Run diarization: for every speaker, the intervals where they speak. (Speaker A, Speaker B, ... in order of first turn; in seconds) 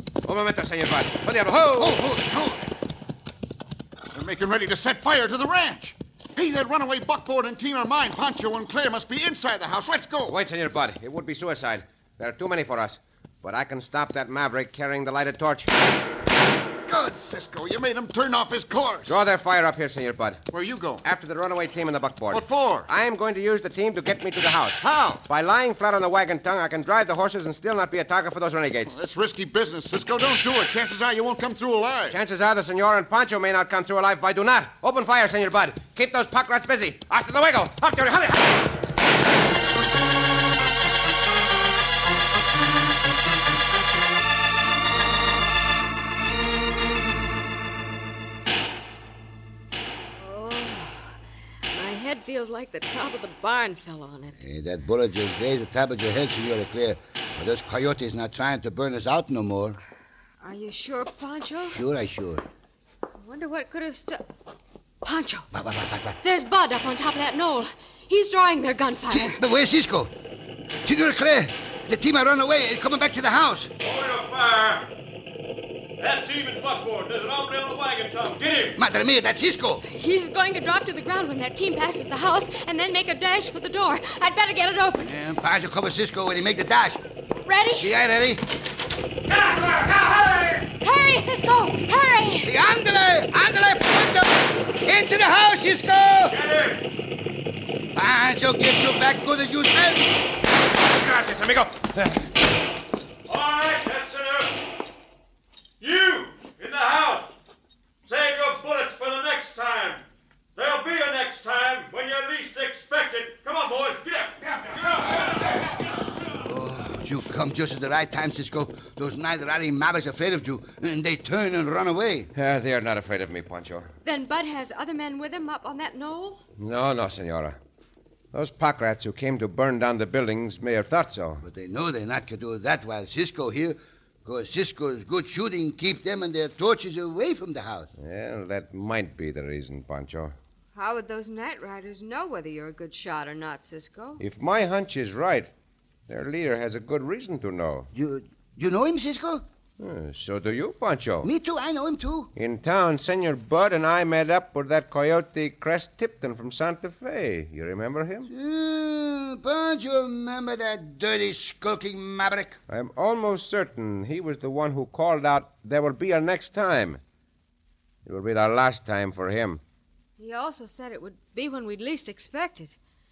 Speaker A: 0.2-2.0, 10.3-15.7, 19.1-20.4, 21.0-28.9, 32.1-38.8, 100.8-102.3, 122.3-123.9, 126.6-127.6, 128.3-131.4, 138.0-140.3, 144.2-145.5, 146.1-147.9, 149.8-151.3, 152.3-158.3, 162.7-167.0, 168.0-169.6
Speaker B: 1.7-2.7, 4.1-10.3, 16.9-19.2, 20.5-21.0, 22.3-22.9, 24.8-25.2, 28.9-32.2
Speaker C: 50.2-51.1, 51.7-54.4, 60.4-61.8, 63.2-64.2, 65.0-65.5, 66.2-69.4, 79.9-85.1, 87.4-87.9, 90.8-92.5, 124.0-126.4, 140.7-144.2, 170.2-172.8
Speaker D: 54.4-59.8, 61.6-62.4, 65.5-66.2, 69.1-70.1, 70.8-73.7, 78.8-79.8, 85.0-87.0, 87.8-88.4, 92.4-96.3, 97.9-100.1, 116.4-122.3, 131.4-137.9, 147.9-149.4, 151.2-152.3, 158.3-162.6
Speaker E: 73.8-74.9, 76.0-78.8, 89.3-90.6, 96.3-96.9, 103.2-104.6, 105.8-107.3, 108.0-115.6